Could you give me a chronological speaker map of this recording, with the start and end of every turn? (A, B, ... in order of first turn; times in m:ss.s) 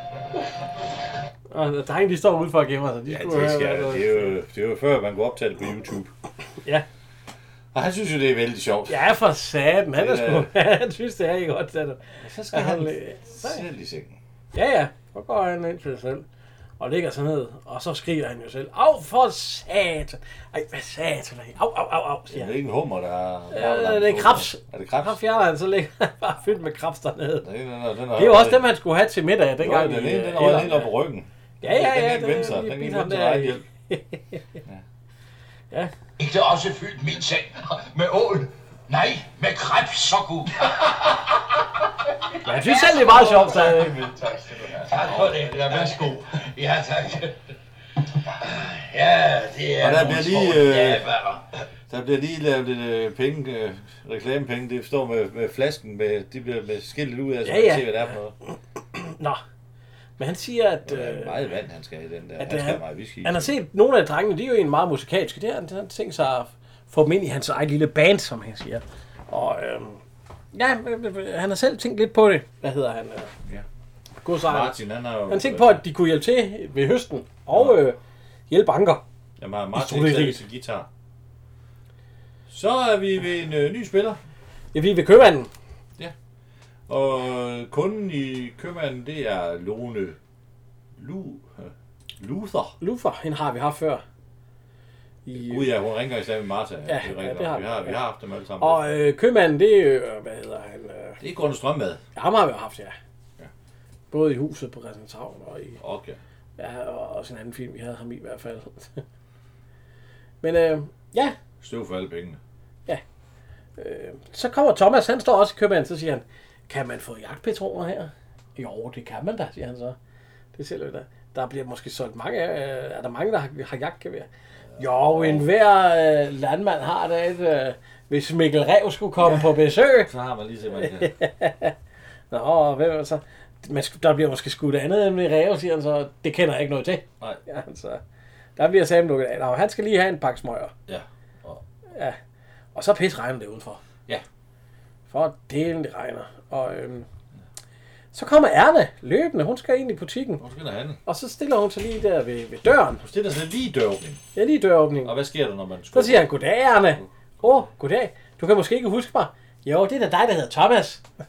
0:01.5-0:04.3 A
0:03.1-0:06.1 B
0:07.7-0:09.0 B
0:08.9-0:13.6 A
0:09.9-0:10.5 B
0:12.2-0:14.2 B
0:14.5-0:16.2 A
0:16.8-0:22.5 A
0:22.3-0:25.2 B
0:23.5-0:27.4 A
0:27.4-0:28.7 B
0:28.1-0:30.9 A
0:29.6-0:33.6 B
0:31.6-0:34.4 A
0:36.2-0:41.2 C
0:42.4-0:44.1 A
0:42.5-0:47.3 C
0:43.1-0:43.7 B
0:48.4-0:51.4 C
0:49.8-0:51.1 B
0:51.9-0:58.3 B
0:57.4-0:58.1 A
0:58.9-0:59.4 A
1:00.2-1:01.4 A
1:00.9-1:03.5 B
1:02.4-1:10.0 A
1:10.5-1:13.3 A
1:14.2-1:14.8 A
1:14.4-1:15.8 B
1:15.3-1:18.0 A
1:17.5-1:17.8 B
1:18.5-1:19.0 A
1:19.4-1:20.9 B
1:19.8-1:20.4 A
1:22.5-1:24.2 B
1:24.7-1:25.5 A
1:26.9-1:30.2 B
1:31.0-1:32.8 B
1:32.8-1:34.0 A
1:35.3-1:35.7 A
1:35.4-1:38.9 B
1:36.9-1:38.0 A
1:38.6-1:41.2 A
1:41.2-1:42.0 B
1:42.1-1:42.9 A
1:44.1-1:45.8 A
1:45.8-1:46.2 B
1:46.6-1:49.0 A
1:50.4-1:51.4 A
1:51.6-1:52.4 B
1:53.8-2:00.0 A
2:00.6-2:10.1 A
2:04.8-2:05.5 B
2:09.2-2:09.5 B
2:10.0-2:11.1 B
2:11.0-2:11.7 A
2:12.3-2:18.0 A
2:18.6-2:20.7 A
2:20.9-2:21.6 B
2:22.8-2:23.8 A
2:25.1-2:27.1 A
2:28.1-2:30.4 A
2:30.4-2:31.0 B
2:31.1-2:33.0 A
2:33.0-2:34.2 B
2:34.4-2:35.1 A
2:35.0-2:36.4 B
2:35.9-2:41.0 A
2:36.9-2:37.7 B